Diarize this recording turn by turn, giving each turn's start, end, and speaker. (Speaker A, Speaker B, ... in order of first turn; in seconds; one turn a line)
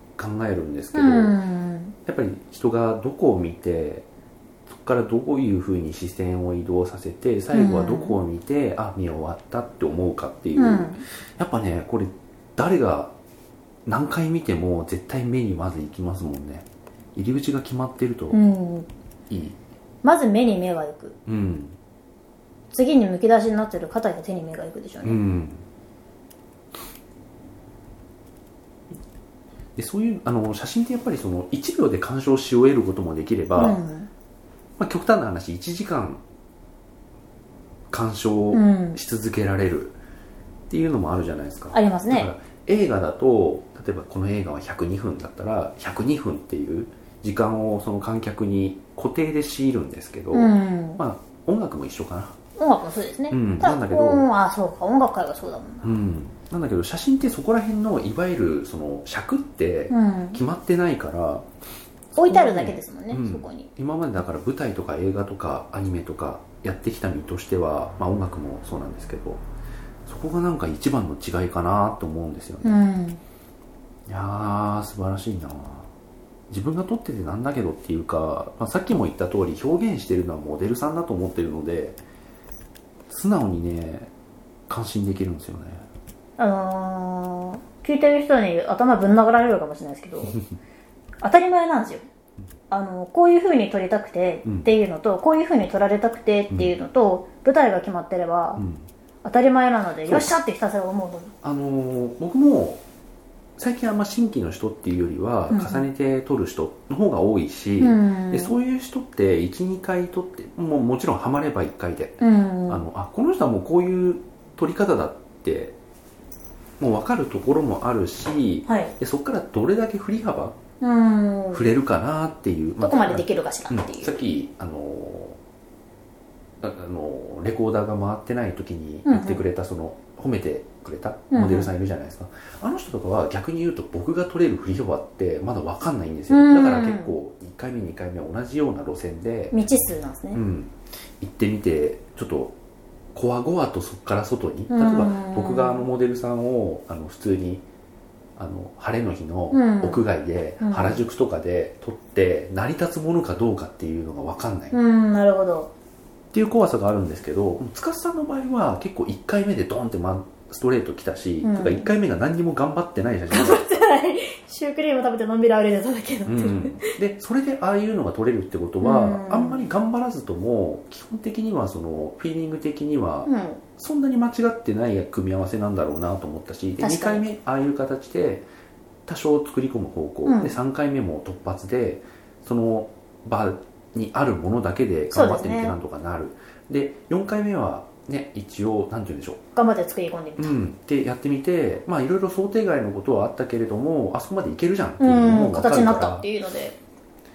Speaker A: 0.2-1.4
Speaker B: 0.9-1.9
Speaker A: 2.0-4.1
Speaker A: 4.7-13.1
Speaker B: 7.5-8.2
Speaker B: 10.6-11.0
Speaker A: 13.8-18.4
Speaker B: 18.3-18.9
Speaker A: 19.3-19.6
Speaker B: 20.0-21.1
Speaker A: 21.2-21.8
Speaker B: 22.7-25.2
Speaker A: 25.0-25.6
Speaker A: 29.8-33.8
Speaker B: 33.5-34.1
Speaker A: 34.8-36.2
Speaker A: 37.9-40.0
Speaker B: 38.5-39.0
Speaker A: 40.7-52.4
Speaker B: 41.7-42.3
Speaker B: 50.3-51.0
Speaker B: 52.5-55.9
Speaker A: 53.3-54.2
Speaker A: 55.8-61.5
Speaker B: 59.9-60.4
Speaker A: 62.1-69.4
Speaker B: 62.1-63.7
Speaker A: 70.0-72.9
Speaker B: 72.6-73.2
Speaker A: 74.1-75.9
Speaker A: 76.5-82.0
Speaker A: 83.1-84.1
Speaker A: 84.7-85.8
Speaker B: 86.4-90.4
Speaker B: 91.2-92.0
Speaker B: 92.7-98.6
Speaker A: 98.5-98.9
Speaker B: 99.2-101.3
Speaker A: 100.0-100.4
Speaker A: 101.4-102.8
Speaker A: 103.6-115.8
Speaker B: 105.5-105.8
Speaker B: 107.8-108.5
Speaker B: 112.2-112.8
Speaker A: 116.8-120.6
Speaker B: 118.7-118.9
Speaker B: 120.8-121.7
Speaker A: 121.5-125.4
Speaker B: 122.8-124.2
Speaker A: 126.6-139.6
Speaker B: 129.1-129.4
Speaker B: 131.3-131.7
Speaker B: 136.3-137.2
Speaker B: 139.5-140.4
Speaker A: 140.3-142.5
Speaker A: 143.1-147.6
Speaker B: 144.7-145.8
Speaker A: 148.4-154.8
Speaker B: 149.5-150.0
Speaker B: 150.6-151.1
Speaker B: 154.7-155.7
Speaker A: 156.3-163.8
Speaker B: 161.4-161.9
Speaker B: 163.3-166.9
Speaker A: 166.2-178.4
Speaker B: 168.8-169.7
Speaker B: 173.2-173.6
Speaker B: 176.8-177.2
Speaker A: 179.1-189.4
Speaker B: 180.2-180.6
Speaker B: 185.1-185.8
Speaker B: 189.5-190.6
Speaker A: 190.4-196.3
Speaker B: 195.0-196.8